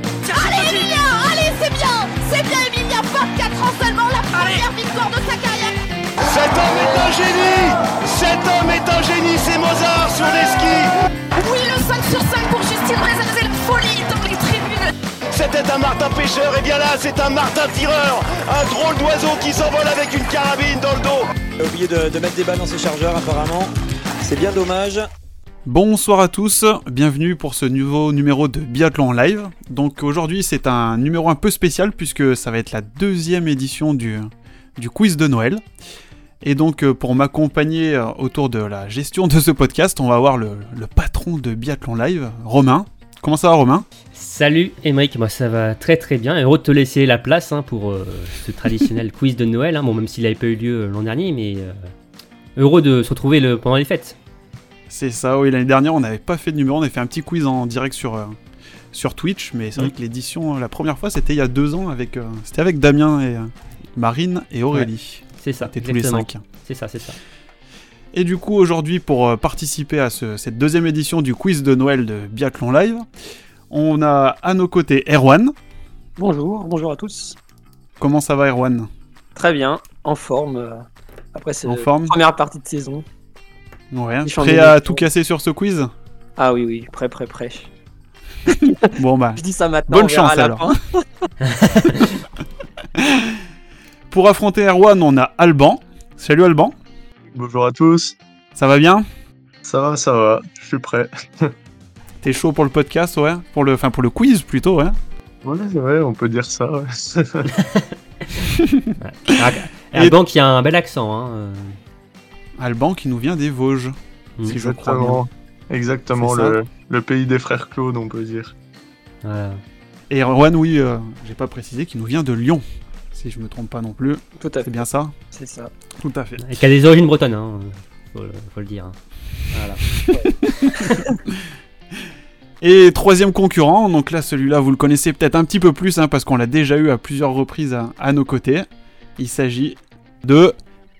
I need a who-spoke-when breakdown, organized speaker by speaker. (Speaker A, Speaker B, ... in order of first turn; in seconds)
Speaker A: 0.2-5.8, 6.8-7.1, 11.4-14.9
Speaker B: 6.2-10.9, 15.3-21.3
Speaker C: 21.6-25.1
Speaker D: 25.6-35.6, 36.4-43.9, 54.9-58.4, 58.9-66.4, 68.1-73.1, 73.7-75.5, 78.0-78.9, 81.7-82.2, 83.9-85.9, 88.9-90.7, 93.0-93.4, 94.1-96.8, 98.5-99.0, 102.2-105.0, 108.6-108.8, 112.6-115.2, 116.1-116.6, 120.1-125.1, 126.0-126.4, 130.3-130.7, 132.6-140.5
Speaker E: 44.1-51.9, 52.5-54.2, 64.7-67.2, 91.4-92.1, 109.0-111.8, 119.2-119.6, 126.4-128.9, 129.5-129.8, 130.7-131.0
Speaker F: 76.2-77.3, 79.3-83.0, 84.2-85.1, 86.4-87.7, 88.7-90.8, 124.4-124.8, 125.3-125.7
Speaker G: 97.3-98.2, 99.6-101.5, 105.4-107.5, 114.6-118.5